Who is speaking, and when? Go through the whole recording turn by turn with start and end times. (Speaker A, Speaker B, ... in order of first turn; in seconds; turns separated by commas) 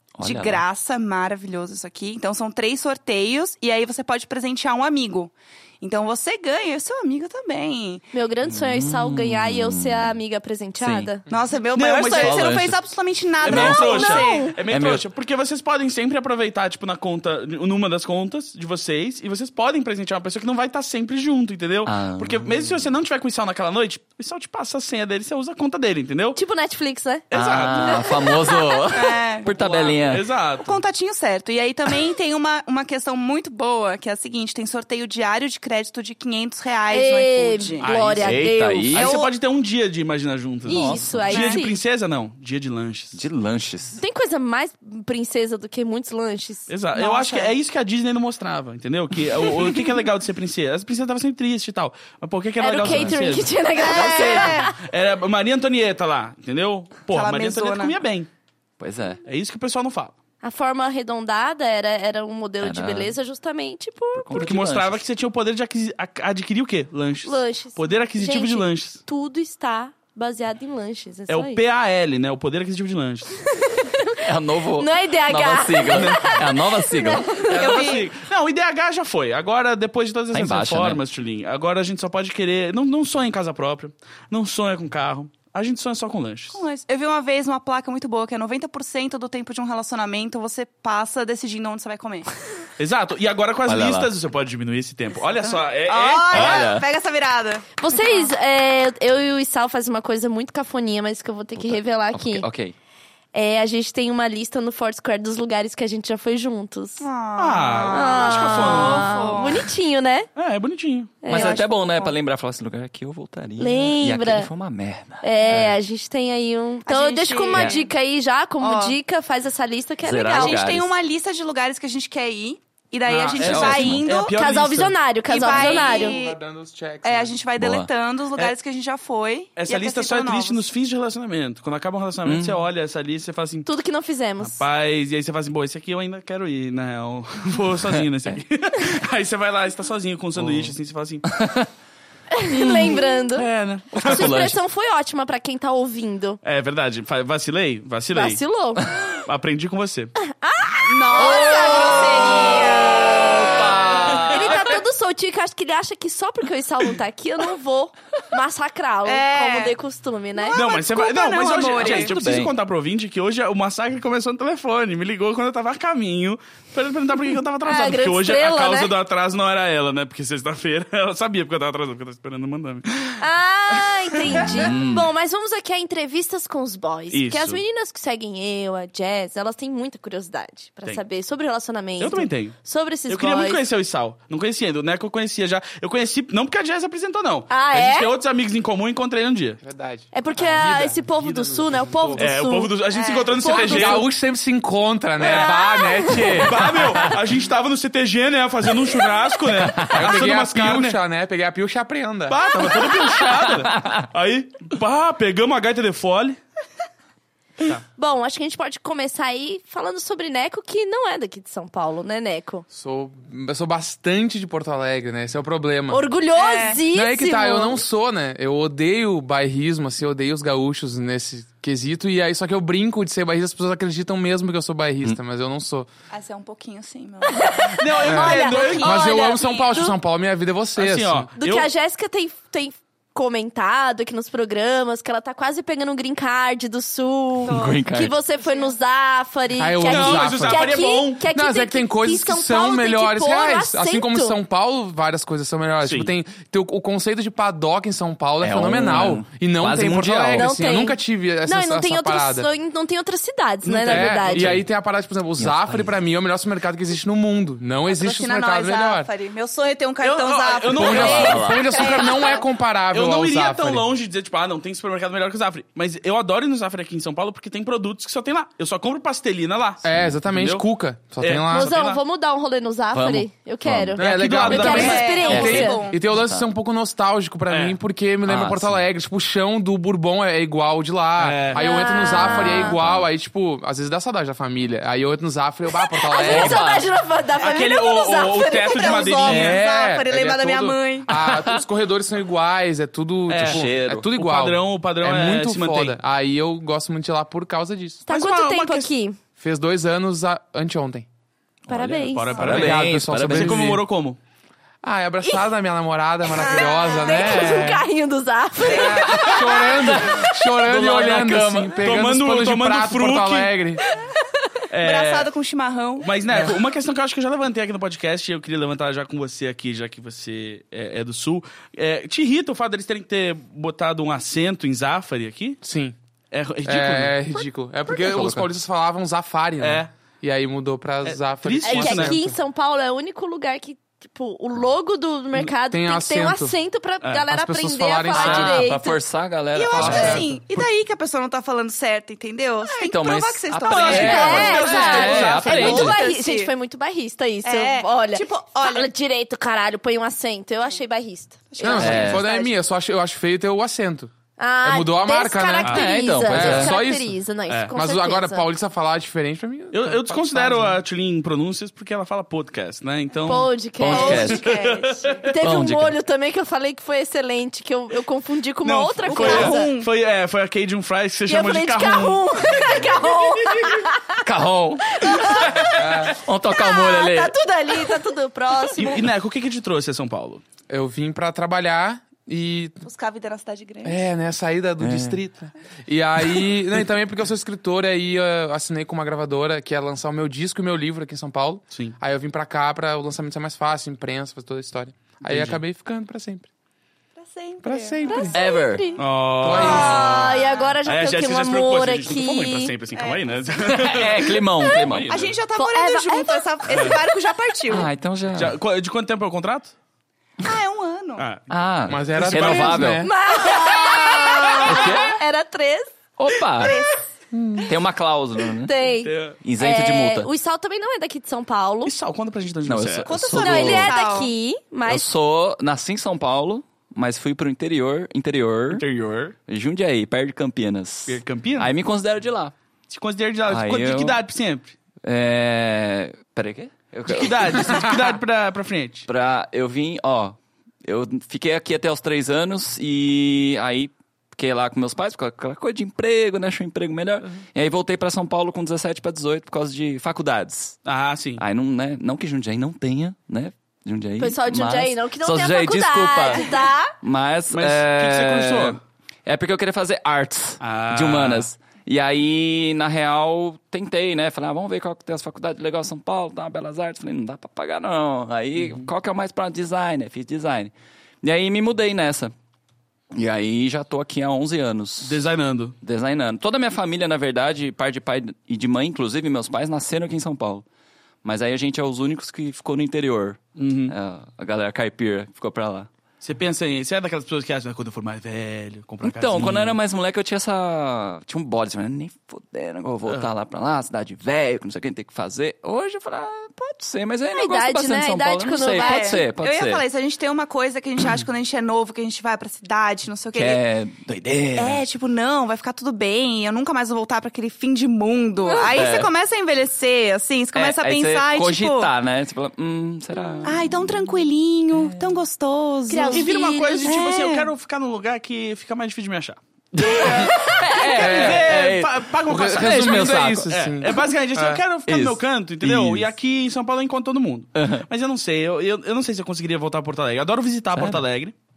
Speaker A: 0.2-0.6, Speaker B: 0.2-8.1, Speaker C: 8.1-11.2, Speaker A: 8.4-10.2, Speaker A: 10.8-11.1, Speaker B: 11.3-14.6, Speaker D: 11.7-12.6, Speaker A: 12.0-12.8, Speaker D: 13.4-26.4, Speaker C: 13.4-14.6, Speaker A: 14.7-15.0, Speaker A: 21.9-22.9, Speaker C: 26.4-29.1, Speaker D: 27.3-28.1, Speaker A: 27.3-30.3, Speaker B: 28.9-29.5, Speaker D: 29.5-30.8, Speaker B: 30.6-37.9, Speaker C: 36.9-39.2, Speaker D: 37.8-43.2, Speaker A: 38.2-39.2, Speaker B: 38.9-39.3, Speaker C: 40.7-41.8, Speaker A: 40.7-41.4, Speaker B: 41.3-41.6, Speaker A: 43.1-44.0, Speaker C: 44.0-46.7, Speaker D: 46.7-58.3, Speaker B: 46.9-47.5, Speaker C: 52.6-54.8, Speaker A: 52.8-53.2, Speaker B: 53.8-54.8, Speaker B: 57.1-58.0, Speaker A: 58.8-59.2, Speaker D: 59.2-60.1, Speaker C: 60.4-64.5, Speaker A: 62.6-63.1, Speaker A: 64.2-65.0, Speaker D: 64.3-69.0, Speaker C: 67.2-71.6, Speaker D: 71.3-73.4, Speaker C: 73.5-74.2, Speaker A: 74.2-77.8, Speaker C: 74.7-78.0, Speaker D: 75.9-76.4, Speaker D: 77.4-86.6, Speaker B: 77.5-78.1, Speaker A: 80.3-81.0, Speaker B: 86.5-92.3, Speaker D: 92.8-96.7, Speaker A: 93.6-94.1, Speaker B: 95.9-98.3, Speaker A: 96.3-96.9, Speaker C: 97.8-102.5, Speaker A: 101.6-102.8, Speaker C: 103.3-107.0, Speaker B: 107.0-109.7, Speaker D: 107.4-109.5, Speaker C: 107.9-110.3, Speaker D: 110.4-111.2, Speaker C: 111.2-111.6, Speaker A: 111.2-115.8, Speaker B: 111.3-112.1, Speaker C: 113.6-114.5, Speaker C: 115.2-120.6, Speaker B: 116.9-117.9, Speaker A: 117.5-117.8, Speaker B: 118.6-119.0, Speaker A: 120.0-120.9, Speaker B: 120.3-124.4, Speaker D: 123.1-125.0, Speaker A: 123.3-124.1, Speaker C: 124.3-126.2, Speaker B: 125.3-126.4, Speaker E: 125.5-127.4, Speaker B: 127.0-130.6, Speaker A: 127.6-127.9, Speaker D: 129.6-133.7, Speaker A: 132.2-132.6, Speaker C: 133.6-134.6, Speaker D: 134.4-141.2, Speaker A: 140.4-141.7, Speaker C: 142.3-143.5, Speaker A: 142.5-143.0, Speaker D: 142.6-144.3, Speaker A: 143.9-144.6, Speaker C: 144.0-146.4, Speaker D: 146.4-148.4, Speaker C: 148.1-148.9, Speaker D: 149.2-150.1, Speaker C: 150.2-160.6, Speaker B: 150.8-154.5, Speaker A: 151.2-154.8, Speaker B: 159.0-159.8, Speaker B: 160.4-162.2, Speaker D: 160.5-173.2, Speaker A: 161.8-162.5, Speaker C: 167.6-168.9, Speaker C: 173.2-183.6, Speaker D: 174.1-174.5, Speaker A: 174.4-175.1, Speaker D: 177.1-177.6, Speaker D: 182.0-189.6, Speaker C: 187.5-188.1, Speaker E: 189.6-192.4, Speaker C: 190.1-194.0, Speaker D: 192.1-194.1, Speaker B: 192.9-193.3, Speaker E: 193.5-196.8, Speaker D: 195.2-201.0, Speaker C: 195.2-196.5, Speaker A: 199.7-200.0, Speaker E: 199.9-202.9, Speaker D: 202.3-206.4, Speaker A: 203.6-204.0, Speaker C: 207.9-212.7, Speaker E: 212.7-216.0, Speaker C: 215.9-217.8, Speaker B: 216.3-216.8, Speaker E: 216.9-225.9, Speaker B: 226.1-229.7, Speaker C: 227.3-229.9, Speaker D: 227.8-229.1, Speaker E: 228.0-231.3, Speaker D: 230.8-231.7, Speaker C: 231.4-244.4, Speaker B: 237.4-238.7, Speaker A: 237.5-238.2, Speaker E: 239.6-240.7, Speaker D: 239.8-241.2, Speaker E: 241.3-252.5, Speaker D: 245.8-246.1, Speaker A: 248.4-250.8, Speaker C: 250.3-254.6, Speaker D: 253.6-254.6, Speaker E: 253.9-259.1, Speaker A: 255.4-255.9, Speaker B: 257.9-262.5, Speaker D: 260.0-261.6, Speaker E: 260.7-263.9, Speaker A: 260.8-261.7, Speaker D: 262.9-270.6, Speaker E: 269.8-271.7, Speaker A: 269.9-270.2, Speaker D: 271.2-272.0, Speaker C: 271.5-275.9, Speaker A: 272.9-274.0, Speaker E: 274.0-286.6, Speaker D: 274.0-275.4, Speaker B: 274.5-276.0, Speaker A: 275.2-276.5, Speaker D: 277.5-277.8, Speaker A: 278.2-278.8, Speaker D: 281.2-281.7, Speaker C: 281.5-282.8, Speaker A: 282.4-283.1, Speaker C: 286.0-289.2, Speaker A: 286.2-286.9, Speaker D: 287.4-289.6, Speaker B: 288.5-291.1, Speaker E: 289.2-298.0, Speaker A: 291.1-291.6, Speaker D: 293.3-296.0, Speaker A: 293.4-294.1, Speaker C: 298.1-299.2, Speaker D: 298.1-298.9, Speaker E: 299.4-301.1, Speaker A: 301.7-303.8, Speaker C: 301.7-302.6, Speaker D: 302.1-304.2, Speaker E: 302.4-303.8, Speaker E: 304.8-307.8, Speaker C: 306.2-310.1, Speaker E: 308.6-313.8, Speaker D: 310.7-313.5, Speaker D: 314.7-315.3, Speaker B: 314.8-316.1, Speaker D: 316.0-325.6, Speaker E: 316.3-316.6, Speaker E: 325.6-325.9, Speaker D: 326.3-327.2, Speaker E: 326.6-332.4, Speaker A: 327.9-328.5, Speaker D: 329.6-329.9, Speaker D: 331.0-332.1, Speaker C: 331.6-339.0, Speaker E: 335.4-336.6, Speaker E: 337.3-338.6, Speaker A: 338.1-340.3, Speaker B: 339.5-346.5, Speaker E: 339.7-340.7, Speaker C: 339.9-340.1, Speaker A: 342.6-346.1, Speaker D: 343.7-345.8, Speaker C: 343.8-352.1, Speaker E: 343.9-344.7, Speaker B: 347.4-348.9, Speaker B: 351.5-352.5, Speaker E: 351.6-357.1, Speaker A: 351.8-352.2, Speaker C: 354.4-358.5, Speaker A: 355.7-356.8, Speaker E: 357.7-360.8, Speaker D: 359.7-365.1, Speaker C: 363.2-369.7, Speaker A: 363.8-364.5, Speaker B: 363.9-365.2, Speaker A: 365.3-365.9, Speaker D: 368.6-373.8, Speaker B: 369.0-369.9, Speaker C: 371.3-374.2, Speaker A: 374.2-377.3, Speaker C: 374.8-375.9, Speaker E: 375.8-376.2, Speaker C: 376.5-379.1, Speaker D: 378.8-380.4, Speaker E: 380.7-382.8, Speaker B: 382.8-384.0, Speaker E: 383.8-396.5, Speaker A: 384.8-385.2, Speaker D: 395.2-395.6, Speaker B: 397.2-398.3, Speaker E: 397.6-398.4, Speaker C: 398.0-402.7, Speaker A: 398.3-398.9, Speaker D: 399.0-405.4, Speaker E: 399.4-400.2, Speaker B: 399.5-400.7, Speaker B: 402.9-403.2, Speaker A: 403.7-405.2, Speaker B: 405.1-407.9, Speaker C: 405.5-407.0, Speaker D: 406.7-407.0, Speaker A: 407.7-408.6, Speaker D: 408.3-409.7, Speaker B: 410.4-411.2, Speaker D: 411.2-411.5, Speaker A: 411.5-413.1, Speaker E: 411.9-413.1, Speaker D: 412.2-412.7, Speaker C: 412.8-415.9, Speaker B: 414.5-414.9, Speaker A: 414.6-415.2, Speaker A: 416.2-416.8, Speaker B: 416.6-417.0, Speaker E: 417.3-417.7, Speaker A: 417.6-418.7, Speaker C: 418.6-421.9, Speaker D: 419.0-419.4, Speaker A: 419.4-420.3, Speaker D: 421.8-423.3, Speaker A: 422.6-423.9, Speaker B: 423.1-424.3, Speaker C: 423.4-425.1, Speaker A: 424.9-428.9, Speaker D: 428.7-429.4, Speaker A: 429.5-432.5, Speaker D: 431.1-431.7, Speaker D: 432.9-434.7, Speaker A: 433.5-434.2, Speaker A: 435.0-438.0, Speaker D: 437.1-439.1, Speaker A: 439.1-450.8, Speaker D: 450.8-451.4, Speaker A: 451.4-472.3, Speaker C: 454.2-457.0, Speaker D: 457.5-458.8, Speaker D: 460.6-461.5, Speaker D: 468.6-468.9, Speaker A: 473.1-475.2, Speaker D: 475.0-475.8, Speaker A: 475.8-480.6, Speaker A: 481.2-485.9, Speaker D: 483.6-483.9, Speaker D: 486.2-489.8, Speaker A: 489.0-499.8, Speaker C: 497.3-499.2, Speaker B: 498.7-503.6, Speaker A: 503.3-504.8, Speaker B: 504.5-511.9, Speaker C: 508.4-508.8, Speaker A: 508.7-509.1, Speaker A: 510.5-514.1, Speaker B: 513.4-516.3, Speaker C: 515.9-517.0, Speaker D: 516.1-531.3, Speaker B: 516.8-517.5, Speaker A: 519.7-523.5, Speaker E: 521.0-521.5, Speaker E: 522.3-524.6, Speaker A: 524.9-526.1, Speaker A: 527.5-527.9, Speaker A: 530.7-531.0